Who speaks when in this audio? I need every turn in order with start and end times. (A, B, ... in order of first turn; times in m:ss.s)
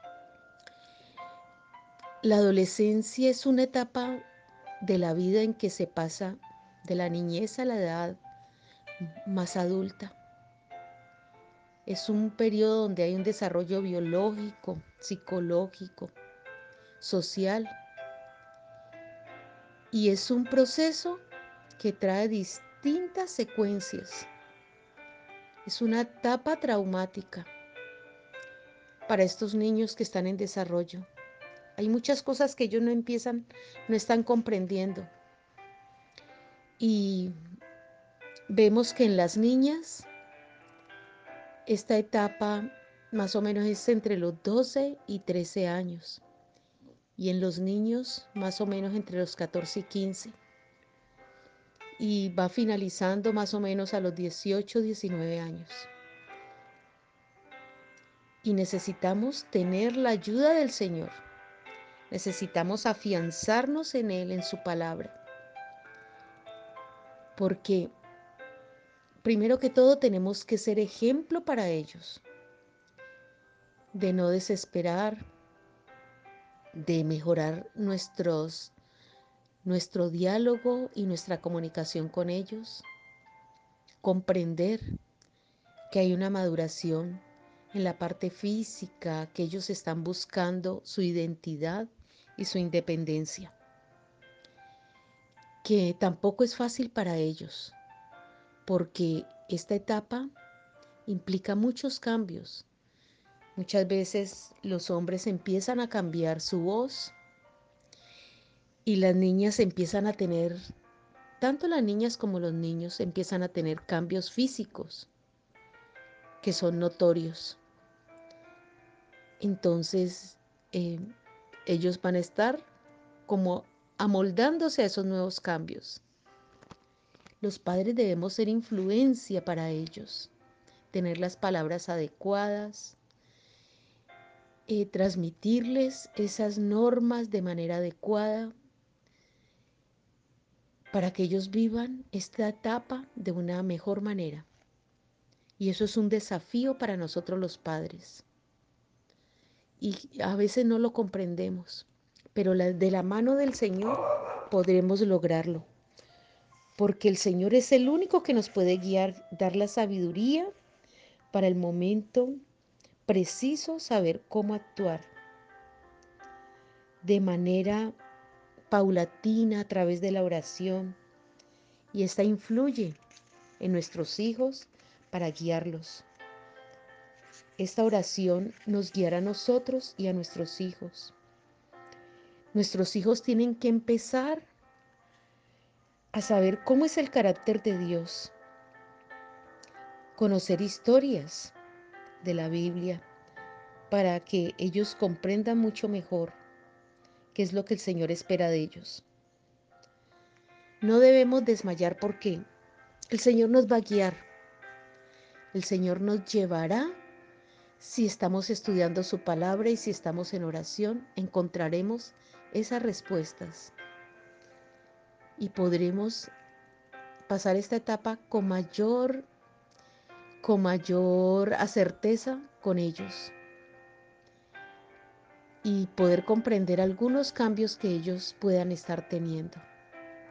0:02.2-0:04.2 A
0:04.8-0:08.2 A
0:09.0-0:10.2 A
0:11.8-0:16.1 A
0:17.0-0:17.8 A
0:19.9-0:21.2 A
0:21.8-0:24.3 A
0:25.6-0:27.5 A
0:29.1-0:31.1 A
0:31.8-0:35.1 A
0:36.8-0:37.3 A
0:38.5-0:40.1 A
0:41.6-0:46.2 A
0:47.2-0:50.4 A
0:52.0-0:55.9 A
0:58.4-1:01.2 A
1:02.1-1:05.2 A
1:07.4-1:07.9 A
1:09.2-1:12.2 A
1:13.9-1:15.2 A
1:16.7-1:18.7 A
1:19.6-1:22.8 A
1:24.0-1:24.9 A
1:25.9-1:33.5 A
1:35.6-1:37.8 A
1:38.6-1:40.3 A
1:41.0-1:42.6 A
1:43.6-1:47.1 A
1:48.8-1:50.6 A
1:51.4-1:55.1 A
1:56.4-1:57.6 A
1:59.4-2:01.0 A
2:01.6-2:02.6 A
2:03.3-2:06.0 A
2:07.4-2:10.3 A
2:10.9-2:13.0 A
2:14.7-2:18.5 A
2:20.9-2:24.5 A
2:25.6-2:28.2 A
2:29.8-2:35.7 A
2:36.8-2:40.5 A
2:41.3-2:42.4 A
2:43.0-2:45.1 A
2:47.0-2:47.9 A
2:48.7-2:51.0 A
2:51.9-2:53.0 A
2:53.6-2:56.0 A
2:57.6-3:01.1 A
3:02.5-3:04.5 A
3:06.1-3:08.3 A
3:10.1-3:11.5 A
3:12.2-3:13.0 A
3:13.9-3:16.4 A
3:17.3-3:19.0 A
3:20.8-3:22.4 A
3:23.1-3:24.2 A
3:25.5-3:26.9 A
3:27.8-3:33.7 A
3:35.4-3:36.3 A
3:37.3-3:39.3 A
3:40.4-3:43.3 A
3:45.6-3:49.6 A